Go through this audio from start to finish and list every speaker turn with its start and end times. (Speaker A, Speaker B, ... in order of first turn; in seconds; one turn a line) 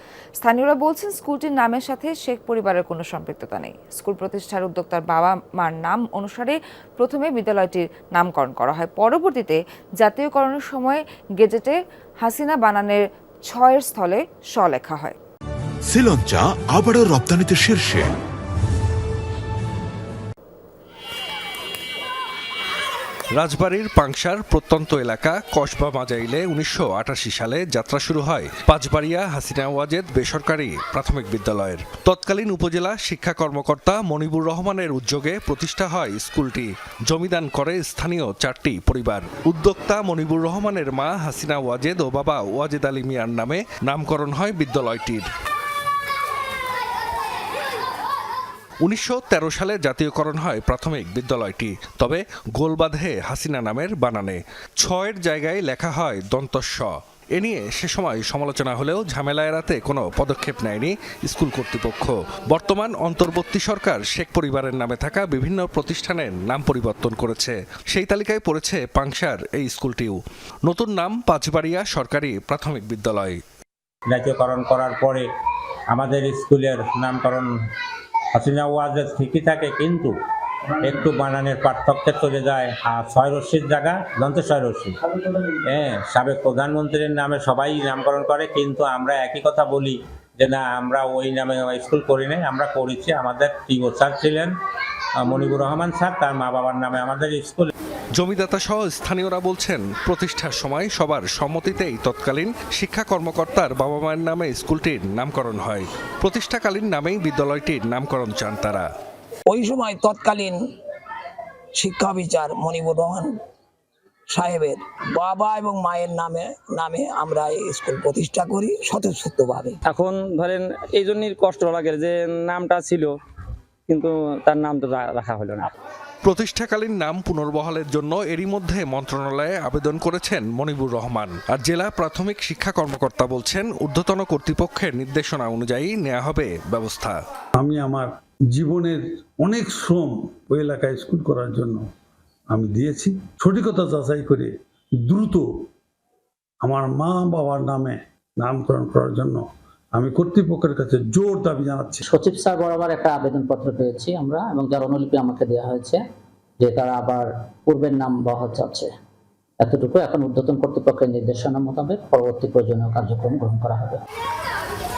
Speaker A: 0.4-15.2
Speaker B: 15.9-18.1
Speaker C: 23.4-45.3
Speaker C: 48.8-73.4
Speaker D: 74.1-75.3
Speaker D: 75.9-77.5
Speaker D: 78.4-80.1
Speaker D: 80.8-85.0
Speaker D: 85.5-94.5
Speaker D: 95.2-97.7
Speaker C: 98.2-108.9
Speaker E: 109.6-110.5
Speaker E: 111.8-113.2
Speaker E: 114.3-119.7
Speaker F: 119.9-123.1
Speaker F: 123.9-125.7
Speaker C: 126.2-137.2
Speaker G: 137.6-141.8
Speaker G: 142.5-144.5
Speaker G: 145.1-145.5
Speaker G: 146.6-149.4
Speaker G: 149.9-152.0
Speaker H: 152.1-156.0
Speaker H: 156.6-158.9
Speaker H: 159.6-164.0